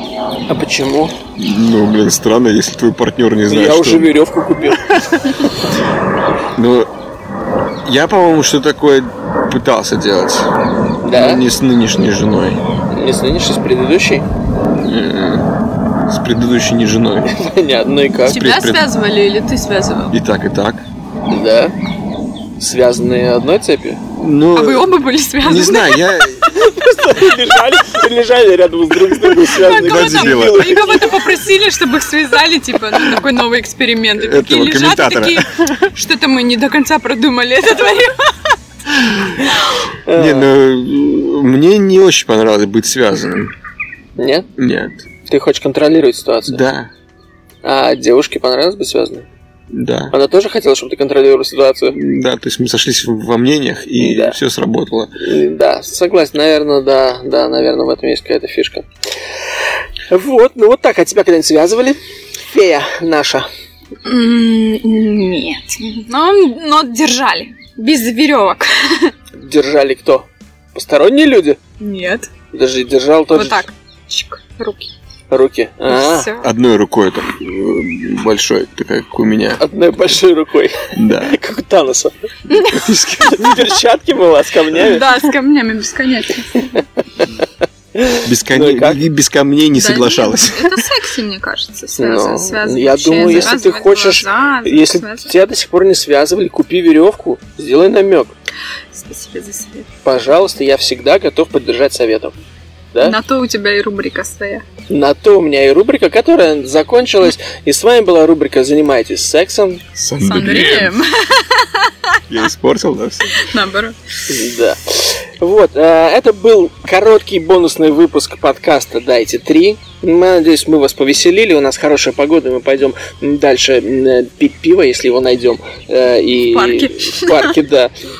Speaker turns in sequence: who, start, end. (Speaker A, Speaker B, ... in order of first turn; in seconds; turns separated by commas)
Speaker A: 0.5-1.2, Speaker B: 1.4-4.1, Speaker A: 3.5-5.5, Speaker B: 6.5-6.9, Speaker B: 7.8-10.5, Speaker A: 11.0-11.4, Speaker B: 11.1-12.6, Speaker A: 12.9-14.3, Speaker B: 14.8-15.6, Speaker B: 16.1-17.4, Speaker A: 17.3-18.5, Speaker C: 18.3-20.1, Speaker B: 18.3-18.9, Speaker B: 20.1-20.9, Speaker A: 21.2-21.7, Speaker A: 22.6-24.0, Speaker B: 24.1-26.6, Speaker C: 24.5-26.2, Speaker A: 26.5-31.1, Speaker B: 29.1-31.1, Speaker C: 29.5-38.5, Speaker B: 34.2-35.9, Speaker B: 39.0-39.3, Speaker A: 40.1-40.5, Speaker B: 40.1-43.5, Speaker A: 44.2-44.5, Speaker B: 44.6-45.0, Speaker A: 45.3-46.6, Speaker B: 46.5-46.9, Speaker A: 47.6-49.3, Speaker B: 49.7-50.1, Speaker A: 50.1-52.0, Speaker B: 51.9-55.1, Speaker A: 54.0-54.4, Speaker A: 55.2-58.9, Speaker A: 60.1-63.5, Speaker C: 64.0-69.1, Speaker A: 69.3-71.6, Speaker C: 71.8-72.3, Speaker A: 72.5-73.7, Speaker C: 73.3-74.9, Speaker A: 75.3-76.3, Speaker C: 75.9-76.5, Speaker B: 76.4-79.6, Speaker A: 79.6-85.0, Speaker B: 80.9-81.4, Speaker C: 82.5-83.0, Speaker B: 82.8-83.4, Speaker C: 84.8-86.7, Speaker A: 88.0-89.0, Speaker B: 88.2-90.9, Speaker C: 89.8-95.3, Speaker A: 92.0-98.3, Speaker C: 98.9-99.9, Speaker A: 100.0-102.4, Speaker C: 103.0-104.7, Speaker A: 104.9-109.8, Speaker B: 110.0-111.0, Speaker C: 110.2-112.2, Speaker B: 112.3-113.4, Speaker C: 113.3-114.0, Speaker A: 114.3-127.9, Speaker C: 126.5-127.6